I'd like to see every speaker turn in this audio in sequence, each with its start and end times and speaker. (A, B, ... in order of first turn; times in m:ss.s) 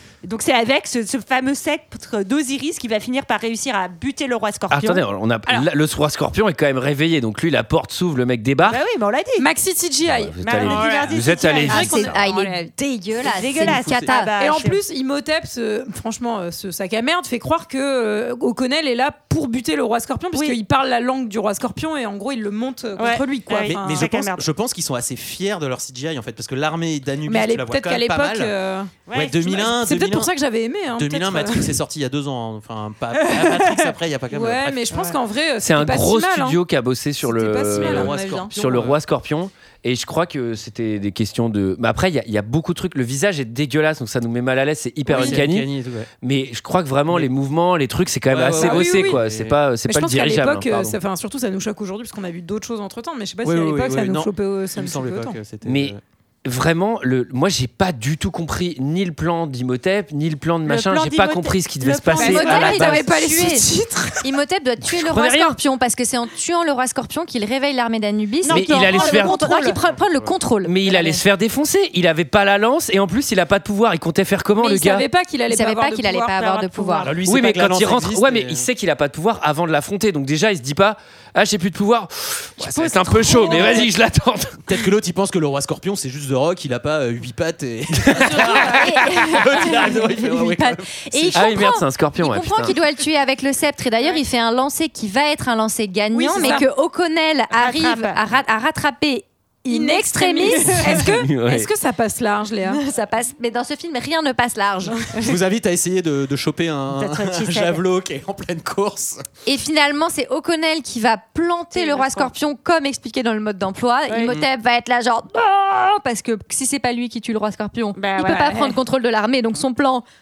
0:00.2-0:05.0 A
0:04.7-0:08.8 B
0:08.6-0:09.5 A
0:09.4-0:12.6 C
0:10.1-0:12.1 B
0:10.4-0:12.2 A
0:11.7-0:14.3 D
0:13.3-0:14.8 A
0:14.4-0:24.1 C
0:23.0-0:24.5 A
0:23.6-0:28.5 E
0:27.3-0:28.9 C
0:29.1-0:29.5 A
0:29.1-0:30.3 E
0:29.4-0:31.8 C
0:31.0-0:34.8 E
0:33.2-0:36.6 C
0:34.9-0:35.2 A
0:35.6-0:45.7 B
0:37.2-0:38.5 C
0:37.7-0:39.0 E
0:45.1-0:46.1 E
0:45.1-0:45.4 C
0:46.2-0:51.0 B
0:48.3-0:49.6 E
0:48.5-0:49.2 C
0:49.8-0:55.4 C
0:53.4-0:56.0 E
0:55.6-1:03.1 B
1:00.6-1:03.2 A
1:02.2-1:04.3 C
1:02.2-1:03.7 D
1:04.2-1:11.2 D
1:04.9-1:05.6 B
1:08.4-1:09.8 A
1:08.5-1:09.4 B
1:10.0-1:10.3 E
1:10.6-1:15.1 B
1:14.6-1:16.3 C
1:15.5-1:17.2 D
1:16.4-1:17.2 A
1:17.0-1:18.7 E
1:17.3-1:24.6 B
1:22.6-1:23.9 D
1:23.4-1:23.8 C
1:24.6-1:31.5 E
1:28.0-1:29.3 B
1:28.2-1:28.8 C
1:28.4-1:41.1 D
1:31.3-1:32.8 B
1:36.1-1:36.7 C
1:36.2-1:36.6 A
1:37.5-1:38.2 A
1:39.7-1:42.8 C
1:41.2-1:41.7 B
1:42.7-1:45.2 D
1:45.2-1:49.2 E
1:47.0-1:47.8 A
1:49.5-2:00.0 D
1:51.8-1:52.3 A
1:54.1-1:54.4 A
1:58.0-1:58.8 A